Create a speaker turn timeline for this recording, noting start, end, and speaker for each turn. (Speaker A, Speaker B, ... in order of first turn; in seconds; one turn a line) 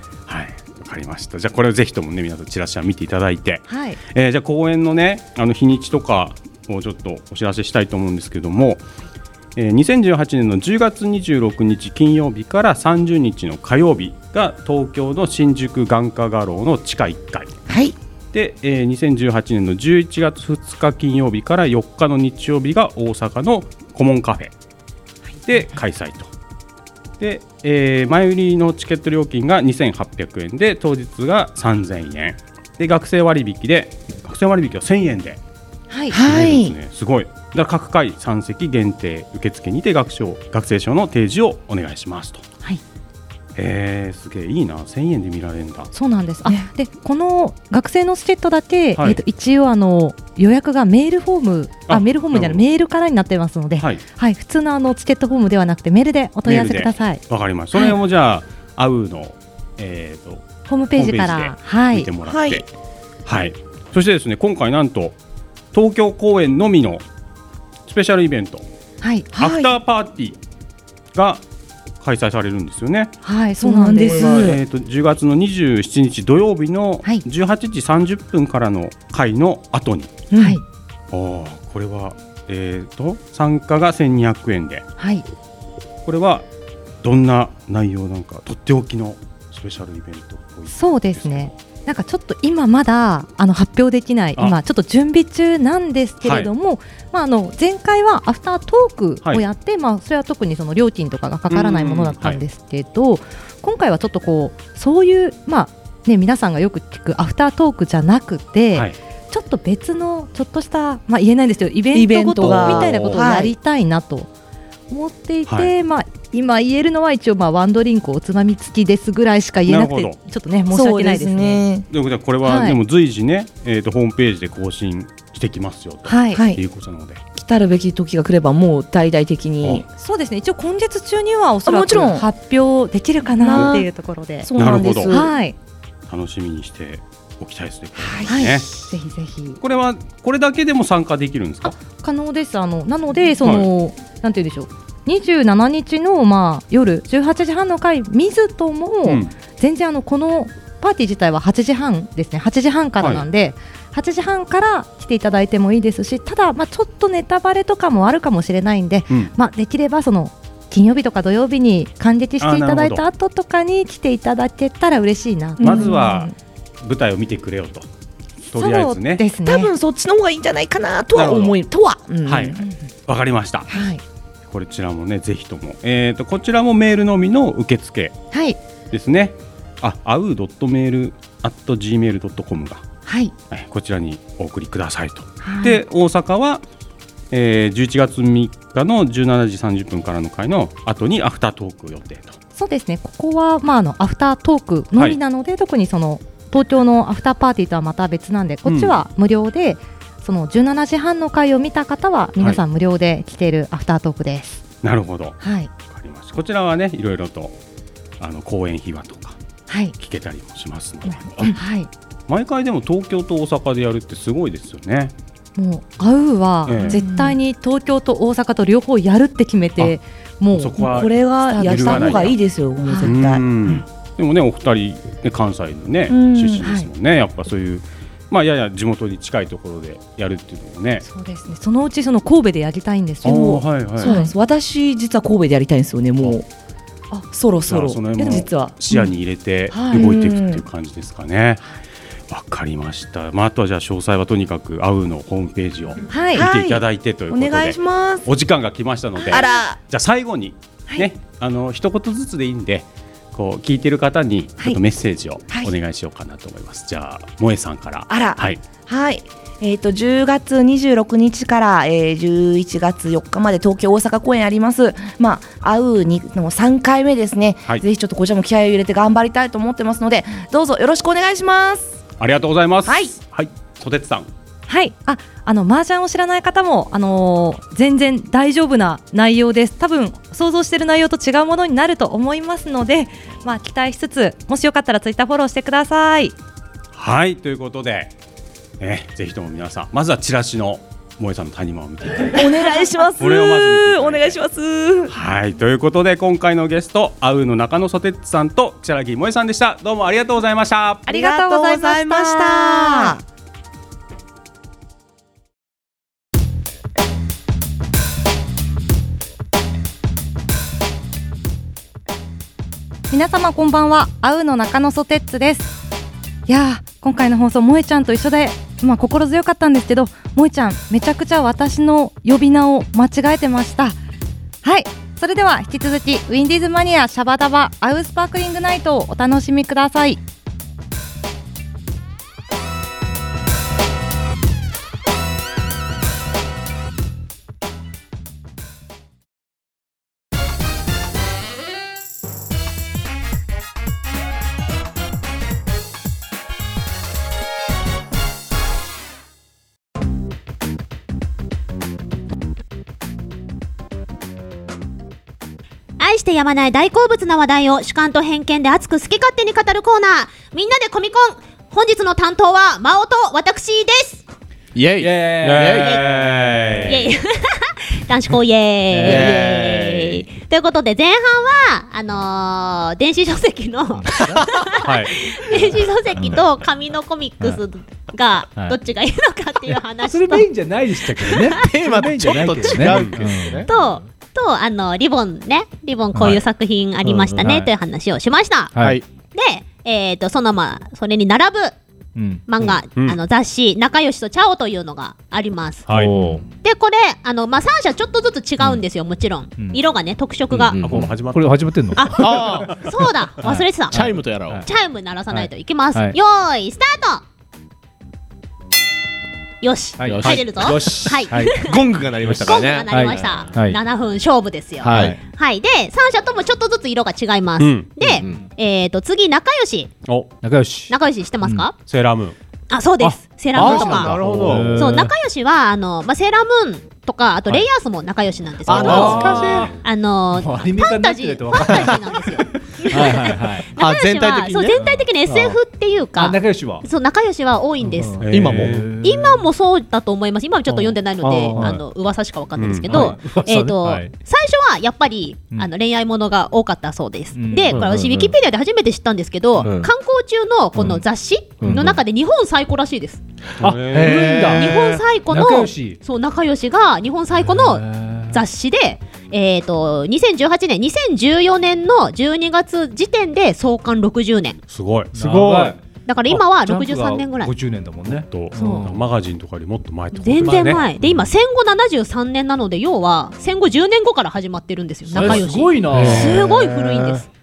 Speaker A: 0.3-8.8
Speaker B: 3.7-4.0
Speaker A: 9.6-17.5
Speaker C: 17.7-17.9
Speaker A: 18.3-24.5
Speaker A: 25.5-26.3
Speaker A: 27.2-35.4
Speaker B: 35.9-36.2
Speaker C: 36.1-36.8
Speaker A: 36.2-42.4
Speaker A: 43.6-45.9
Speaker B: 45.9-57.2
Speaker A: 51.9-52.6
Speaker A: 56.5-62.6
Speaker B: 60.7-62.1
Speaker C: 62.2-62.6
Speaker A: 63.3-65.2
Speaker A: 65.7-67.0
Speaker A: 67.9-68.7
Speaker B: 69.0-69.4
Speaker C: 69.4-69.7
Speaker A: 69.4-70.4
Speaker A: 71.1-71.4
Speaker A: 72.0-73.1
Speaker B: 73.2-74.5
Speaker C: 73.6-74.6
Speaker A: 74.1-80.2
Speaker C: 80.3-80.6
Speaker B: 80.4-80.6
Speaker A: 81.1-84.8
Speaker B: 85.0-85.2
Speaker A: 86.0-86.5
Speaker A: 87.0-91.5
Speaker B: 90.7-114.3
Speaker A: 96.2-96.5
Speaker A: 101.5-102.4
Speaker C: 111.9-113.5
Speaker A: 112.4-113.3
Speaker B: 114.9-121.7
Speaker A: 115.5-115.7
Speaker A: 119.7-120.2
Speaker C: 120.7-121.9
Speaker A: 121.9-127.2
Speaker B: 122.5-122.8
Speaker B: 126.1-126.4
Speaker C: 126.3-126.6
Speaker C: 127.4-129.8
Speaker B: 130.0-135.6
Speaker C: 131.7-132.3
Speaker C: 133.3-133.9
Speaker C: 134.4-135.3
Speaker A: 134.6-135.2
Speaker A: 136.1-138.7
Speaker C: 138.0-138.8
Speaker B: 138.3-139.6
Speaker A: 139.6-141.7
Speaker B: 141.7-166.2
Speaker A: 143.4-143.7
Speaker A: 149.1-149.3
Speaker A: 153.0-153.2
Speaker A: 162.4-163.0
Speaker C: 165.6-166.3
Speaker A: 165.6-166.3
Speaker A: 166.8-167.9
Speaker B: 168.5-169.7
Speaker A: 168.5-169.2
Speaker C: 169.4-172.7
Speaker A: 171.2-171.6
Speaker A: 172.3-173.7
Speaker B: 173.7-174.0
Speaker A: 174.5-178.2
Speaker B: 178.3-178.6
Speaker A: 178.9-182.8
Speaker B: 183.1-183.3
Speaker A: 183.5-186.6
Speaker B: 185.4-185.8
Speaker A: 187.3-192.4
Speaker B: 192.6-204.6
Speaker A: 198.7-199.0
Speaker A: 204.8-207.6
Speaker B: 205.4-205.7
Speaker A: 208.2-209.4
Speaker B: 209.7-209.9
Speaker A: 210.0-211.6
Speaker B: 211.1-211.9
Speaker A: 212.3-215.1
Speaker B: 215.6-220.8
Speaker A: 216.7-217.0
Speaker C: 216.8-217.4
Speaker A: 220.5-222.4
Speaker C: 220.8-223.5
Speaker B: 221.4-222.3
Speaker B: 222.8-223.1
Speaker A: 223.0-231.0
Speaker C: 226.1-226.7
Speaker B: 226.6-226.9
Speaker B: 231.0-234.3
Speaker A: 233.2-234.1
Speaker C: 233.2-236.5
Speaker C: 237.3-239.1
Speaker A: 237.7-241.7
Speaker B: 239.7-240.1
Speaker C: 239.9-240.6
Speaker A: 242.3-258.6
Speaker B: 246.1-246.5
Speaker C: 246.3-248.3
Speaker C: 249.2-249.8
Speaker B: 249.3-249.5
Speaker C: 258.1-271.9
Speaker A: 272.2-274.3
Speaker C: 272.9-273.1
Speaker B: 274.7-286.4
Speaker A: 286.9-288.1
Speaker A: 288.8-294.4
Speaker C: 292.3-295.1
Speaker A: 295.1-301.1
Speaker B: 301.1-303.2
Speaker C: 301.1-303.2
Speaker B: 313.1-315.7
Speaker B: 316.5-324.0
Speaker B: 324.6-330.2
Speaker D: 356.0-364.2
Speaker E: 364.8-366.0
Speaker F: 365.0-366.0
Speaker A: 365.4-367.1
Speaker D: 366.9-381.7
Speaker F: 368.9-369.5
Speaker E: 369.0-370.2
Speaker F: 374.1-374.4
Speaker A: 374.8-375.2
Speaker F: 379.7-383.7
Speaker E: 381.5-384.0
Speaker D: 382.3-382.8
Speaker A: 382.8-383.2
Speaker D: 383.7-388.7
Speaker F: 386.1-386.4
Speaker E: 387.1-387.5
Speaker F: 387.4-387.7
Speaker F: 388.8-389.0
Speaker E: 388.8-389.1
Speaker D: 389.3-391.8
Speaker F: 392.2-392.4
Speaker D: 392.5-395.9
Speaker F: 395.9-396.4
Speaker A: 395.9-396.2
Speaker E: 396.2-396.4
Speaker D: 396.6-400.8
Speaker E: 400.5-401.2
Speaker A: 400.8-401.8
Speaker F: 401.0-402.5
Speaker D: 401.9-404.0
Speaker E: 402.1-402.8
Speaker A: 402.6-402.9
Speaker F: 403.4-404.7
Speaker E: 403.9-404.7
Speaker D: 404.6-407.2
Speaker F: 405.3-406.2
Speaker D: 409.6-411.8
Speaker F: 410.0-411.7
Speaker E: 410.1-413.5
Speaker F: 412.2-413.8
Speaker D: 412.4-419.9
Speaker E: 414.8-415.2
Speaker F: 414.8-415.2
Speaker A: 417.6-418.0
Speaker E: 418.1-418.5
Speaker A: 420.1-420.3
Speaker F: 420.4-421.7
Speaker D: 420.9-421.8
Speaker A: 421.8-422.4
Speaker D: 422.7-438.2
Speaker F: 423.0-425.1
Speaker E: 423.6-424.9
Speaker A: 423.7-424.6
Speaker E: 428.6-429.8
Speaker F: 428.7-429.8
Speaker A: 428.7-429.7
Speaker F: 430.3-433.7
Speaker E: 433.8-435.6
Speaker F: 436.1-436.9
Speaker F: 437.8-439.4
Speaker A: 438.2-438.9
Speaker E: 438.3-438.9
Speaker D: 439.0-453.2
Speaker F: 440.7-441.8
Speaker A: 442.6-443.2
Speaker F: 442.9-444.1
Speaker F: 447.3-448.2
Speaker E: 447.7-448.3
Speaker E: 449.6-449.9
Speaker E: 451.6-452.0
Speaker E: 453.6-455.1
Speaker F: 453.6-456.0
Speaker A: 453.6-454.4
Speaker D: 454.3-464.6
Speaker F: 457.4-458.4
Speaker A: 464.7-465.7
Speaker F: 465.1-469.1
Speaker E: 465.4-465.7
Speaker D: 466.1-467.5
Speaker A: 468.1-470.9
Speaker D: 468.6-468.9
Speaker D: 470.1-477.3
Speaker F: 470.5-471.2
Speaker F: 475.1-476.6
Speaker E: 475.9-477.2